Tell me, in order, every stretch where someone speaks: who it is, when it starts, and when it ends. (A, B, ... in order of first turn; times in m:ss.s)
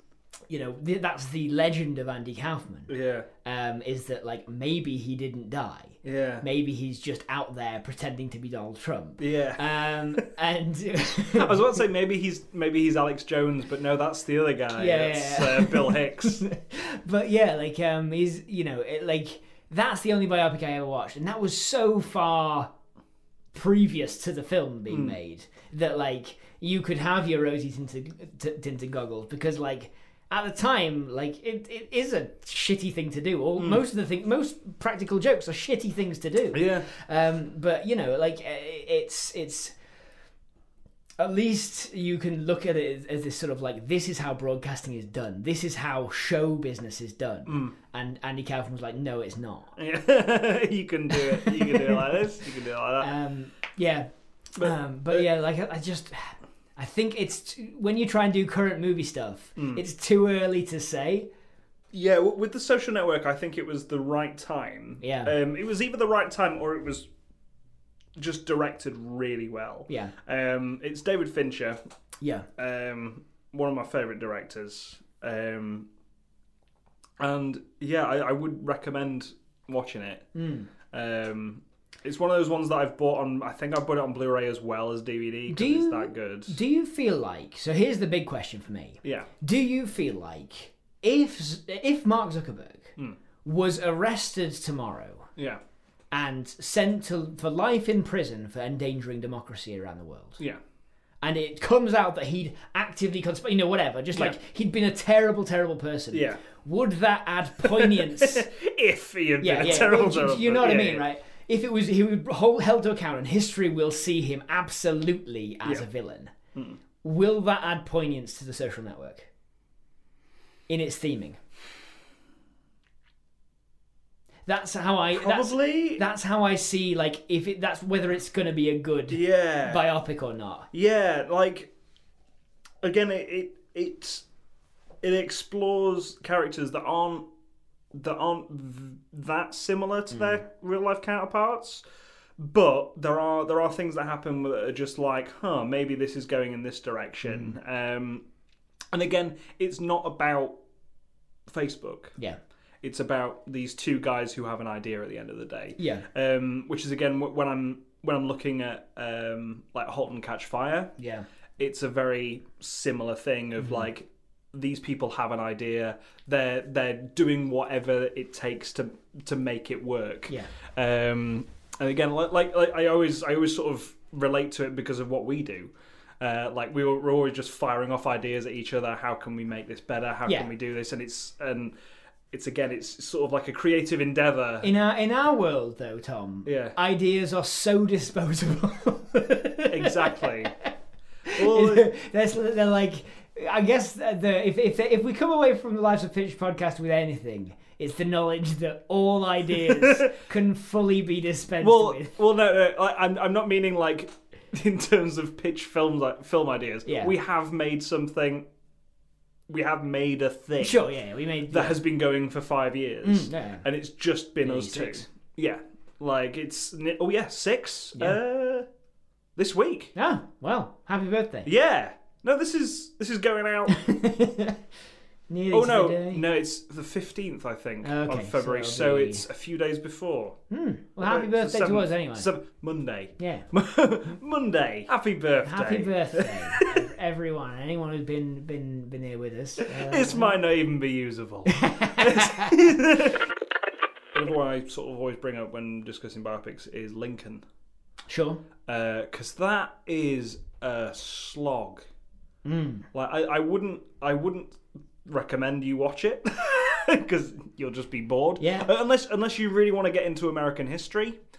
0:00.5-0:02.9 A
0:02.9-0:03.3 B
0:03.4-0:11.8 A
0:06.0-0:06.4 B
0:09.2-0:10.2 B
0:11.3-0:16.5 B
0:14.7-0:22.7 A
0:23.5-0:39.7 A
0:24.9-0:25.2 B
0:36.5-0:36.9 B
0:41.2-0:49.8 A
0:47.5-0:47.7 B
0:49.8-0:53.1 B
0:51.1-0:52.3 A
0:53.0-1:01.3 A
0:54.6-0:55.2 B
0:59.6-0:59.8 B
1:01.9-1:07.1 B
1:05.0-1:05.3 A
1:08.2-1:11.8 B
1:09.9-1:10.1 A
1:12.2-1:12.5 A
1:12.6-1:15.9 B
1:17.2-1:20.3 B
1:20.4-1:20.7 A
1:20.9-1:26.6 B
1:25.5-1:35.3 A
1:29.0-1:29.3 B
1:36.1-1:40.4 A
1:41.2-1:48.5 A
1:46.1-1:46.4 B
1:47.6-1:51.0 B
1:49.4-1:56.3 A
1:57.0-1:59.3 A
2:00.7-2:01.4 A
2:04.5-2:10.7 A
2:05.1-2:06.0 B
2:09.1-2:09.9 B
2:10.7-2:11.7 B
2:12.8-2:14.2 B
2:15.0-2:17.3 B
2:17.9-2:21.8 B
2:20.1-2:20.4 A
2:22.4-2:28.2 B
2:27.3-2:27.5 A
2:28.9-2:30.6 B
2:31.5-2:32.2 B
2:32.8-2:40.9 B
2:35.8-2:36.1 A
2:41.0-2:41.3 A
2:41.6-3:01.8 B
2:43.6-2:43.9 A
3:02.3-3:04.7 B
3:04.6-3:10.7 A
3:06.4-3:06.8 B
3:09.7-3:10.5 B
3:11.3-3:22.2 A
3:11.4-3:11.9 B
3:19.6-3:20.1 B
3:21.6-3:28.5 B
3:26.9-3:27.1 A
3:29.5-3:30.8 B
3:30.6-3:31.8 A
3:31.5-3:38.7 B
3:33.0-3:33.6 A
3:34.4-3:35.1 A
3:39.4-3:39.9 B
3:40.0-3:41.5 A
3:41.5-3:43.8 B
3:43.7-3:44.6 A
3:45.3-3:46.2 A
3:45.5-3:50.4 B
3:47.8-3:49.3 A
3:50.5-3:52.3 A
3:51.0-3:56.8 B
3:53.2-3:53.5 A
3:55.4-4:00.4 A
3:59.6-4:03.3 B
4:01.5-4:02.6 A
4:04.1-4:07.4 B
4:08.1-4:08.4 A
4:08.6-4:11.8 B
4:12.4-4:12.9 A
4:12.9-4:21.2 B
4:18.4-4:18.7 A